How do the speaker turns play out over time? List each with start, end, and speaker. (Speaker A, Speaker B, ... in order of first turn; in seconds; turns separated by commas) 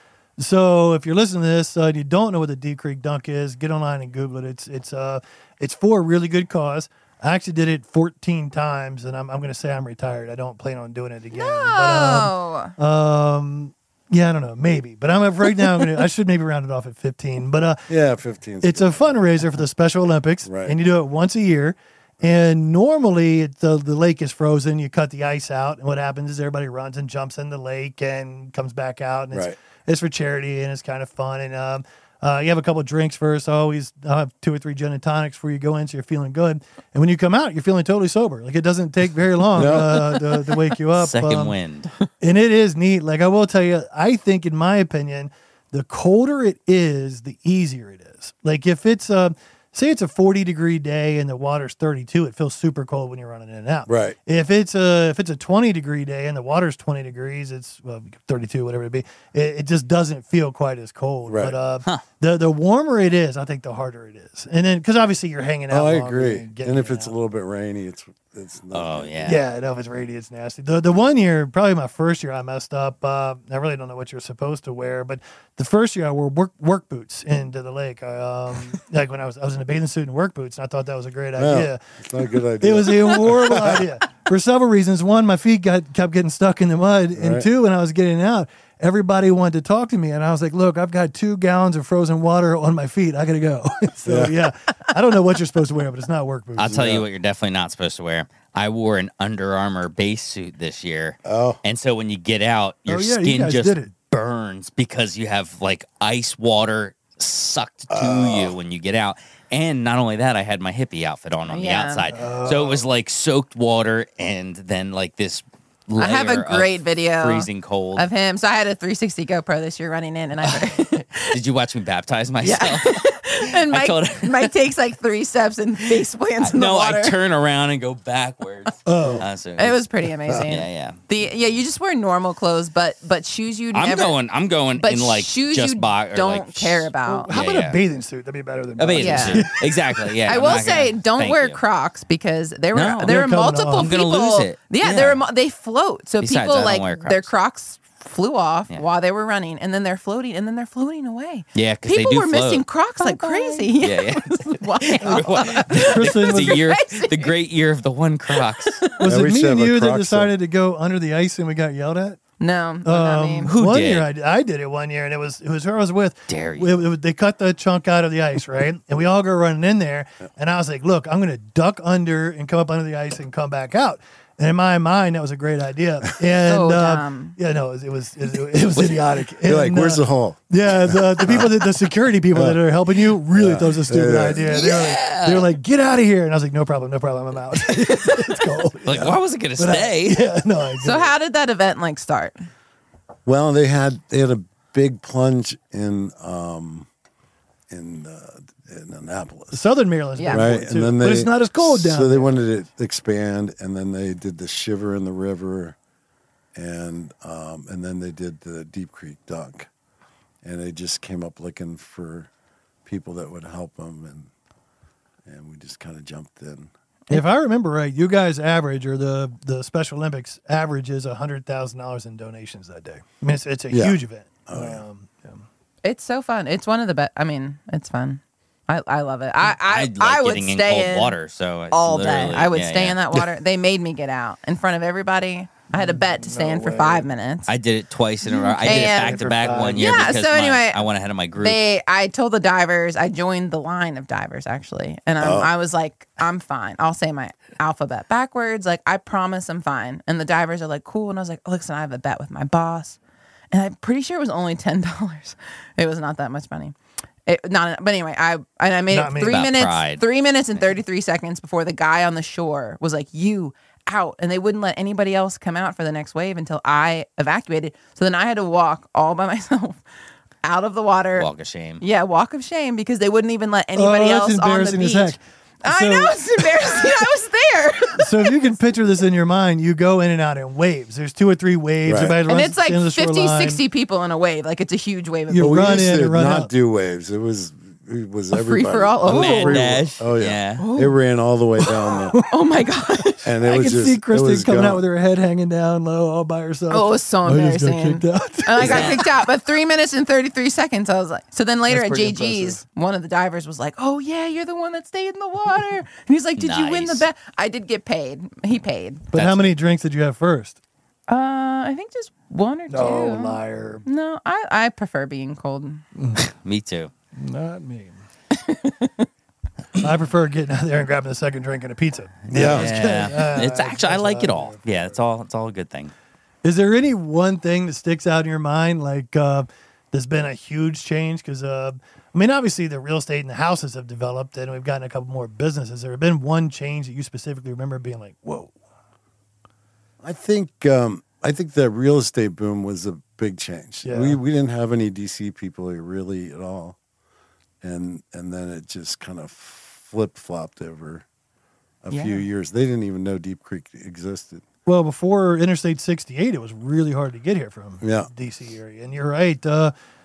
Speaker A: 0.4-17.9, Speaker B: 11.3-12.7, Speaker C: 17.9-19.2, Speaker A: 18.6-41.6, Speaker C: 20.4-20.8, Speaker C: 29.3-29.6, Speaker C: 39.5-40.1, Speaker D: 41.0-41.9, Speaker A: 42.2-67.1, Speaker C: 53.9-54.2, Speaker C: 61.3-61.6, Speaker C: 65.7-69.4, Speaker D: 68.7-69.4, Speaker A: 69.2-81.8, Speaker C: 81.4-83.9, Speaker A: 82.6-97.0, Speaker C: 87.2-87.5, Speaker C: 94.0-94.4, Speaker D: 96.6-118.1, Speaker C: 96.7-97.0, Speaker C: 101.2-101.6, Speaker A: 102.9-103.9, Speaker C: 107.9-108.6, Speaker B: 111.5-112.1, Speaker A: 112.1-112.8, Speaker B: 116.0-121.4, Speaker D: 120.4-124.5, Speaker B: 122.4-127.2, Speaker D: 125.9-129.8, Speaker A: 128.9-129.3, Speaker B: 129.6-134.2, Speaker D: 130.3-131.0, Speaker D: 133.7-137.8, Speaker B: 134.8-137.3, Speaker A: 137.1-140.6, Speaker D: 138.8-141.6, Speaker B: 139.0-139.6, Speaker B: 140.3-157.3, Speaker D: 142.7-143.2, Speaker A: 143.0-143.9, Speaker D: 143.8-145.2, Speaker D: 146.2-147.3, Speaker D: 151.6-152.7, Speaker A: 153.0-153.7, Speaker D: 153.8-158.8, Speaker A: 155.0-156.7, Speaker B: 158.3-158.9, Speaker A: 159.0-162.2, Speaker C: 159.0-160.3, Speaker B: 162.4-163.6, Speaker A: 162.8-191.2, Speaker D: 163.4-164.1, Speaker D: 166.3-166.8, Speaker B: 176.4-177.3, Speaker D: 178.8-179.0, Speaker C: 179.4-181.6, Speaker C: 182.3-182.6, Speaker C: 183.3-184.5, Speaker D: 184.4-185.5, Speaker D: 188.8-190.2, Speaker B: 190.8-192.4, Speaker C: 193.2-196.9, Speaker C: 197.7-199.6, Speaker A: 199.5-202.5, Speaker B: 200.2-200.5, Speaker C: 200.3-205.8, Speaker C: 206.6-209.7, Speaker C: 210.4-212.3, Speaker C: 212.8-214.3, Speaker C: 215.3-216.7, Speaker A: 217.1-225.4, Speaker C: 223.7-224.8, Speaker B: 225.8-231.2, Speaker D: 229.5-233.0, Speaker B: 231.7-237.5, Speaker A: 235.8-237.1, Speaker D: 237.5-241.6, Speaker B: 238.2-253.0, Speaker A: 238.6-240.2, Speaker C: 245.2-245.5, Speaker B: 253.5-256.8, Speaker B: 257.3-269.8, Speaker A: 258.9-259.4, Speaker D: 259.3-260.0, Speaker B: 270.4-278.4, Speaker D: 271.2-271.8, Speaker A: 273.8-276.9, Speaker A: 277.9-283.6, Speaker C: 281.9-282.2, Speaker B: 282.3-285.8, Speaker A: 285.3-286.5, Speaker C: 285.4-292.2, Speaker B: 288.3-289.8, Speaker D: 289.1-290.7, Speaker B: 290.6-291.0, Speaker B: 291.6-293.3, Speaker C: 293.2-294.8, Speaker A: 293.4-299.1, Speaker B: 296.7-309.1, Speaker C: 298.6-299.0, Speaker D: 298.6-299.0, Speaker A: 301.7-302.6, Speaker D: 306.4-307.1, Speaker A: 309.1-310.6, Speaker D: 309.1-309.5, Speaker B: 311.1-315.8, Speaker A: 312.7-313.8, Speaker A: 315.9-316.2, Speaker D: 316.2-316.9, Speaker A: 317.2-318.0, Speaker B: 318.3-319.1, Speaker A: 319.8-325.0, Speaker D: 322.3-325.9, Speaker C: 322.3-322.7, Speaker A: 326.4-338.5, Speaker C: 340.0-346.8, Speaker A: 343.8-344.2, Speaker C: 347.6-351.1, Speaker C: 351.8-354.4, Speaker A: 351.9-352.2, Speaker A: 354.7-359.7, Speaker C: 357.8-358.1